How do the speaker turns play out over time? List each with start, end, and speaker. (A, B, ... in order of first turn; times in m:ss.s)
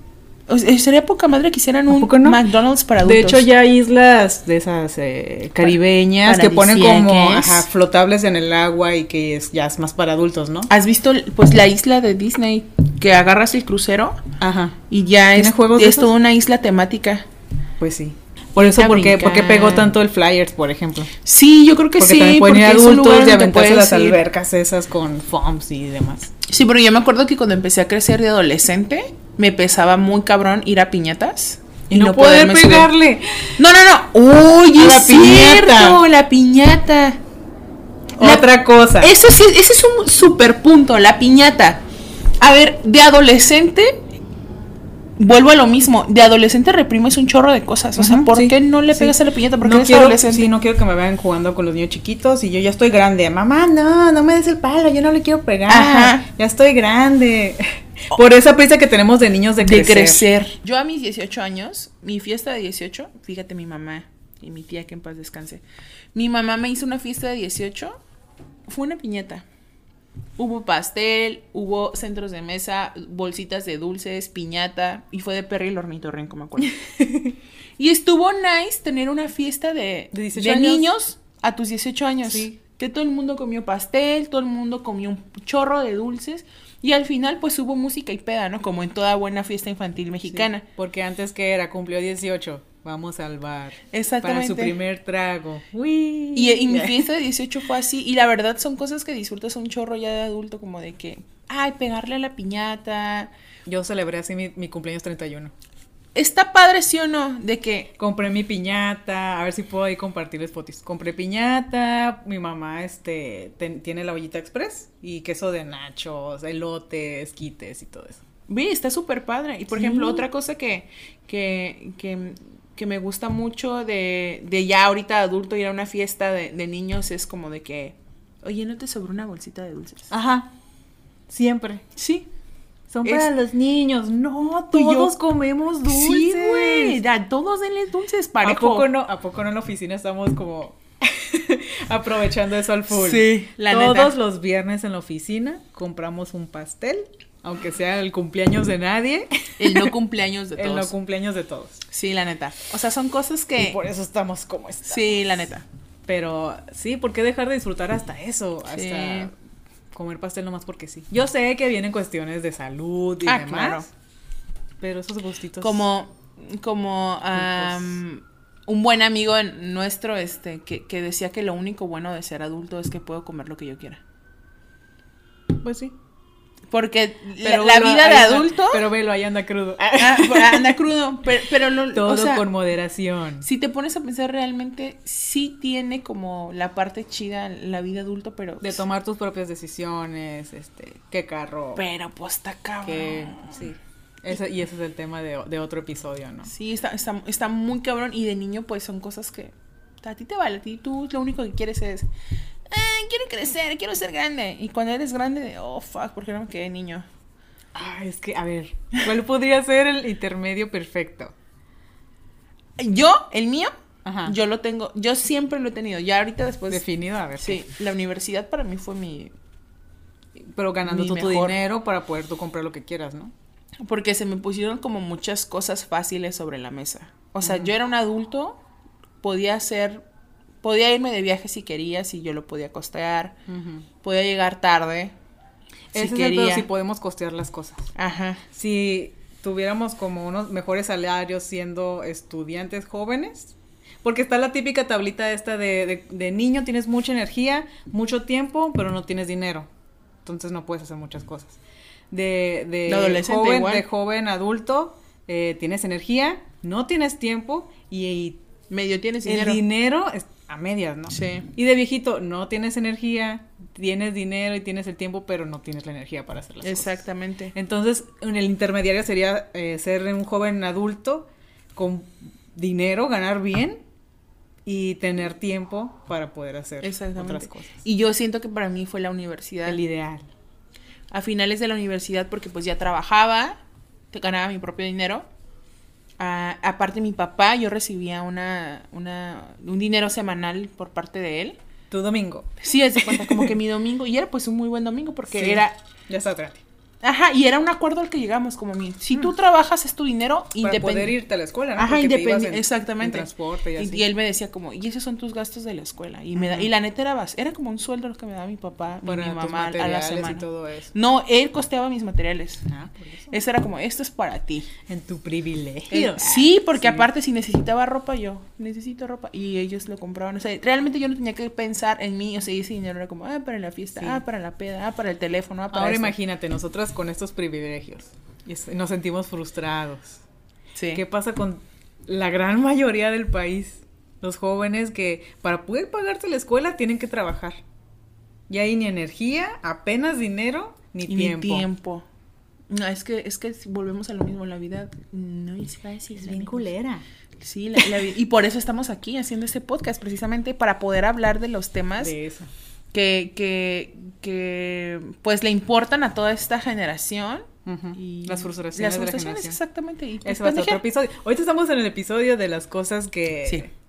0:00.5-0:03.5 A
0:01.9-0:02.4 B
0:03.0-0:10.7 B
0:05.6-0:07.7 A
0:10.7-0:14.2 A
0:14.4-0:14.8 B
0:14.9-0:17.3 A
0:15.4-0:16.1 B
0:17.8-0:21.1 B
0:18.6-0:19.9 A
0:21.2-0:24.2 A
0:22.0-0:26.3 B
0:26.4-0:32.9 A
0:31.9-0:33.6 B
0:33.6-0:37.2 A
0:34.8-0:36.0 B
0:38.2-0:39.1 B
0:38.2-0:41.8 A
0:42.4-0:44.0 A
0:45.2-0:50.5 A
0:48.0-1:00.3 B
0:55.7-0:56.2 A
0:59.6-1:08.0 A
1:08.7-1:09.4 A
1:10.4-1:16.7 A
1:17.0-1:17.3 B
1:17.8-1:30.6 A
1:20.1-1:20.9 B
1:22.3-1:22.6 B
1:30.3-1:37.0 B
1:33.9-1:34.8 A
1:36.4-1:43.3 A
1:43.7-1:45.5 B
1:46.2-1:47.9 A
1:48.0-1:58.2 B
1:58.5-2:10.1 A
1:59.7-2:00.2 B
2:10.1-2:10.5 B
2:11.3-2:11.8 B
2:12.0-2:12.3 A
2:12.9-2:17.0 B
2:13.0-2:13.3 A
2:14.7-2:15.2 A
2:15.9-2:18.9 A
2:18.4-2:29.9 B
2:22.9-2:24.2 A
2:29.6-2:30.9 A
2:30.6-2:31.8 B
2:31.9-2:33.8 A
2:33.6-2:35.2 B
2:34.8-2:35.6 A
2:36.1-2:39.3 B
2:38.7-2:39.3 A
2:39.9-2:43.9 B
2:43.2-2:43.9 A
2:44.8-2:45.8 B
2:45.6-2:54.0 A
2:47.3-2:48.0 B
2:55.6-2:55.9 B
2:56.7-2:58.8 A
2:57.4-3:00.8 B
3:00.0-3:02.5 A
3:01.9-3:03.5 B
3:03.4-3:08.8 A
3:08.6-3:11.8 B
3:11.8-3:13.6 A
3:12.8-3:16.5 B
3:16.5-3:22.1 A
3:22.7-3:27.1 A
3:27.8-3:31.3 B
3:32.8-3:33.7 A
3:34.0-3:34.4 B
3:34.3-3:36.8 A
3:36.7-3:37.6 B
3:37.4-3:39.3 A
3:40.4-3:43.3 B
3:40.8-3:41.6 A
3:43.8-3:48.6 A
3:47.4-3:47.7 B
3:49.2-3:50.0 A
3:50.6-3:53.4 A
3:53.5-3:53.9 B
3:54.0-3:55.2 A
3:55.9-3:57.9 B
3:55.9-3:56.7 A
3:58.0-3:58.4 A
3:58.5-4:09.7 B
4:10.2-4:11.6 B
4:12.1-4:18.4 B
4:12.9-4:13.9 A
4:18.7-4:19.6 A
4:19.2-4:27.0 B
4:21.1-4:21.5 A
4:26.6-4:27.5 A
4:27.6-4:33.8 B
4:34.7-4:37.8 B
4:36.8-4:39.8 A
4:39.7-4:40.3 B
4:41.1-4:43.6 A
4:44.1-4:45.3 A
4:46.2-4:51.6 A
4:51.9-4:52.5 B
4:52.6-4:55.8 A
4:53.2-4:53.5 B
4:55.3-4:56.6 B
4:57.0-5:01.2 A
5:00.6-5:04.1 B
5:01.8-5:12.7 A
5:06.4-5:06.7 B
5:09.0-5:10.9 B
5:12.7-5:13.4 B
5:13.3-5:14.7 A
5:14.9-5:17.1 B
5:15.9-5:26.2 A
5:25.7-5:30.2 B
5:30.8-5:31.0 A
5:30.9-5:37.6 B
5:38.5-5:41.7 B
5:41.1-5:42.1 A
5:42.7-5:46.7 A
5:46.2-5:47.0 B
5:47.4-5:52.2 A
5:52.0-5:52.5 B
5:52.9-6:00.8 A
5:57.6-5:59.6 B
6:00.2-6:03.7 B